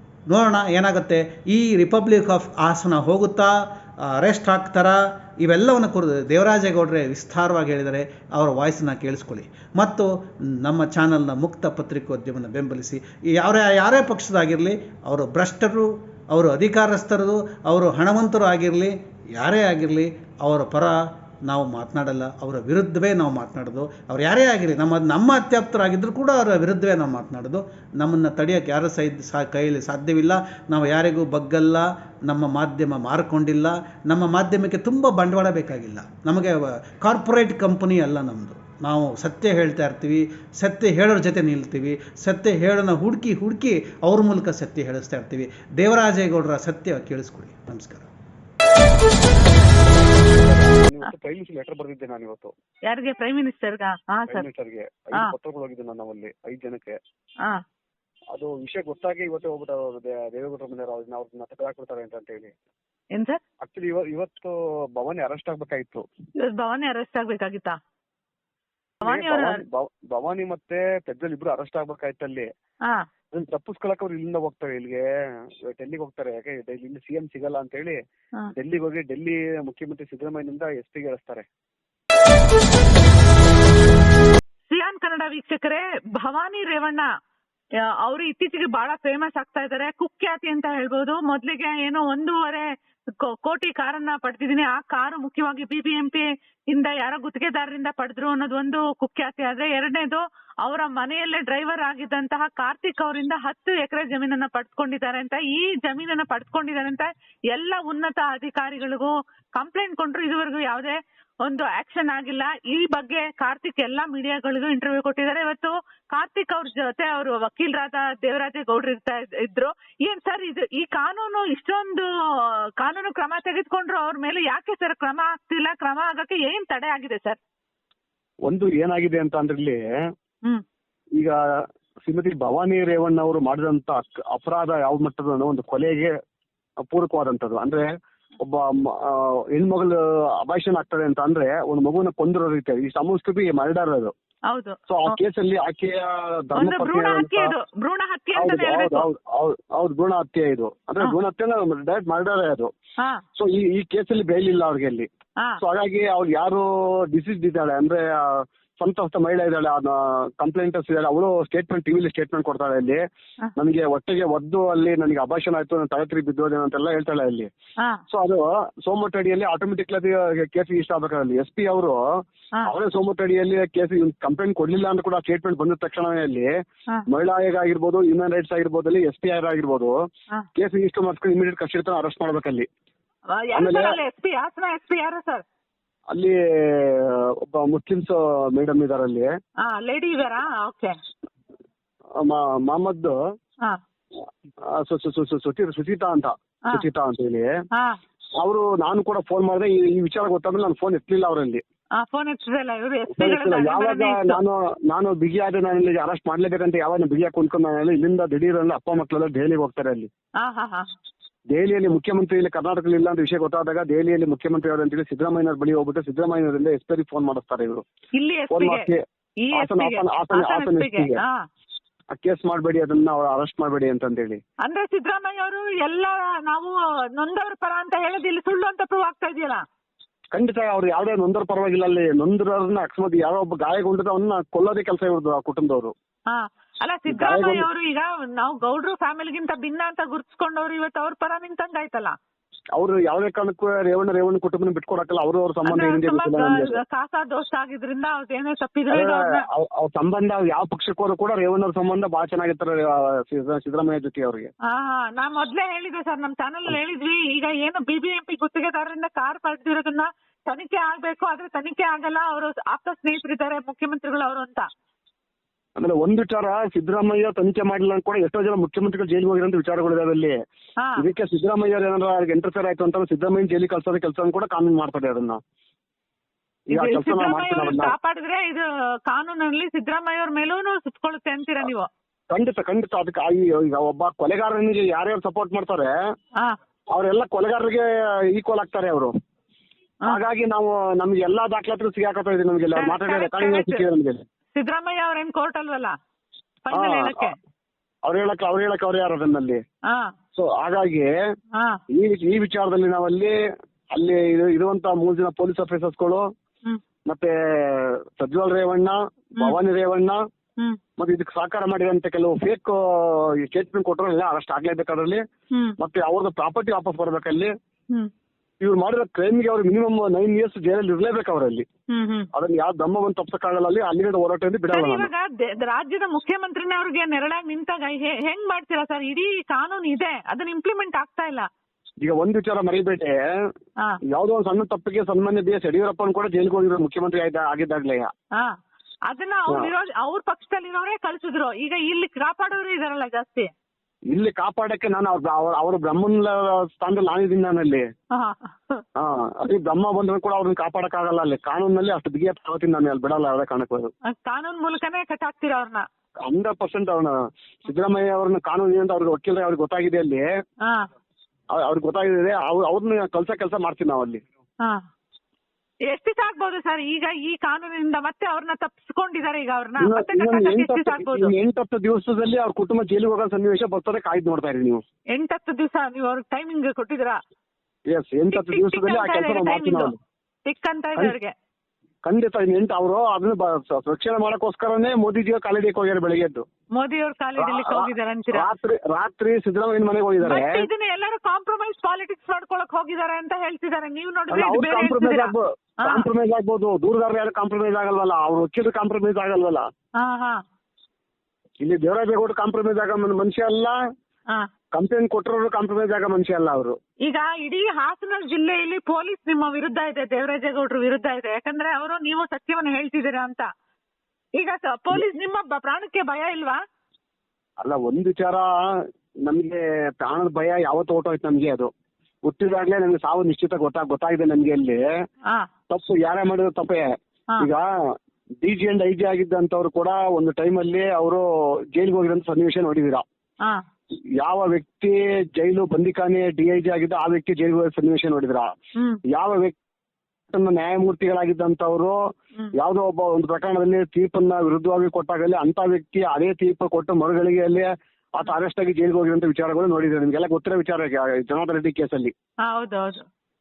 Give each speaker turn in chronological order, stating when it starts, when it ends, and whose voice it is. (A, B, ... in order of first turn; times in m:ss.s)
0:00.3-0:48.1 A
0:49.4-0:49.8 B
0:49.5-0:52.5 C
0:52.9-0:54.4 B
0:54.3-0:57.0 C
0:58.3-1:02.6 C
1:03.1-1:03.4 B
1:03.6-1:06.1 C
1:06.4-1:07.8 B
1:09.0-1:09.6 B
1:09.0-1:12.5 C
1:13.3-1:18.0 C
1:18.6-1:21.5 C
1:24.7-1:27.1 B
1:28.0-1:32.7 B
1:33.2-2:07.4 B
2:08.4-2:09.8 C
2:11.2-2:16.1 C
2:16.9-2:17.9 C
2:18.4-2:24.1 C
2:24.5-2:25.2 B
2:24.9-2:27.5 C
2:26.6-2:29.1 B
2:28.3-2:32.7 C
2:33.4-2:35.1 C
2:35.6-2:43.0 C
2:43.6-2:47.5 C
2:48.1-2:52.0 C
2:52.6-2:56.5 C
2:57.1-3:00.0 C
3:00.6-3:02.7 C
3:03.3-3:05.4 B
3:03.5-3:04.0 C
3:06.1-3:09.3 C
3:09.6-3:10.9 B
3:12.2-3:13.2 C
3:14.6-3:17.5 C
3:18.4-3:21.6 C
3:22.0-3:24.4 B
3:23.1-3:30.1 C
3:30.4-3:30.9 B
3:31.5-3:37.8 C
3:38.1-3:38.9 B
3:38.5-3:39.0 C
3:39.4-3:41.4 B
3:39.5-3:41.2 C
3:42.2-3:44.4 C
3:44.6-3:49.6 B
3:50.3-3:55.9 C
3:56.3-4:02.2 B
3:57.1-3:57.7 C
4:02.8-4:06.8 C
4:05.6-4:09.4 B
4:08.9-4:14.5 C
4:14.7-4:24.7 B
4:25.8-4:30.4 C
4:31.0-4:35.4 C
4:36.7-4:38.0 C
4:36.8-4:41.9 B
4:42.3-4:45.9 C
4:46.9-4:49.1 C
4:50.1-4:54.2 C
4:52.8-4:53.9 B
4:54.6-4:55.9 B
4:56.7-4:57.4 B
4:56.7-4:57.3 C
4:58.0-4:59.6 C
4:59.9-5:00.1 B
5:00.4-5:01.2 C
5:01.9-5:03.4 C
5:04.0-5:06.3 C
5:07.1-5:10.2 C
5:11.0-5:15.2 C
5:15.8-5:17.5 C
5:18.6-5:21.7 C
5:21.9-5:22.3 B
5:22.3-5:25.1 C
5:24.7-5:31.5 B
5:32.0-5:33.2 C
5:34.1-5:38.1 C
5:39.1-5:43.5 B
5:44.1-5:47.9 C
5:48.1-5:48.8 B
5:49.0-5:53.9 C
5:54.1-5:55.9 B
5:56.3-6:00.3 C
6:01.5-6:04.2 C
6:05.9-6:11.3 B
6:09.8-6:14.8 C
6:15.1-6:17.2 B
6:17.9-6:20.0 C
6:18.3-6:19.9 B
6:20.4-6:21.3 B
6:22.0-6:26.4 C
6:26.8-6:28.5 B
6:27.4-6:30.7 C
6:30.2-6:36.1 B
6:34.3-6:39.7 C
6:40.0-6:40.4 B
6:41.6-6:43.8 C
6:44.7-6:46.8 C
6:47.0-6:53.5 B
6:54.4-6:56.6 B
6:57.6-6:58.5 C
6:59.3-7:01.7 C
7:02.2-7:04.8 C
7:05.7-7:06.9 C
7:07.4-7:07.7 C
7:08.4-7:13.0 C
7:14.2-7:18.5 C
7:19.1-7:19.6 C
7:20.3-7:22.0 C
7:22.6-7:32.1 C
7:32.5-7:33.1 B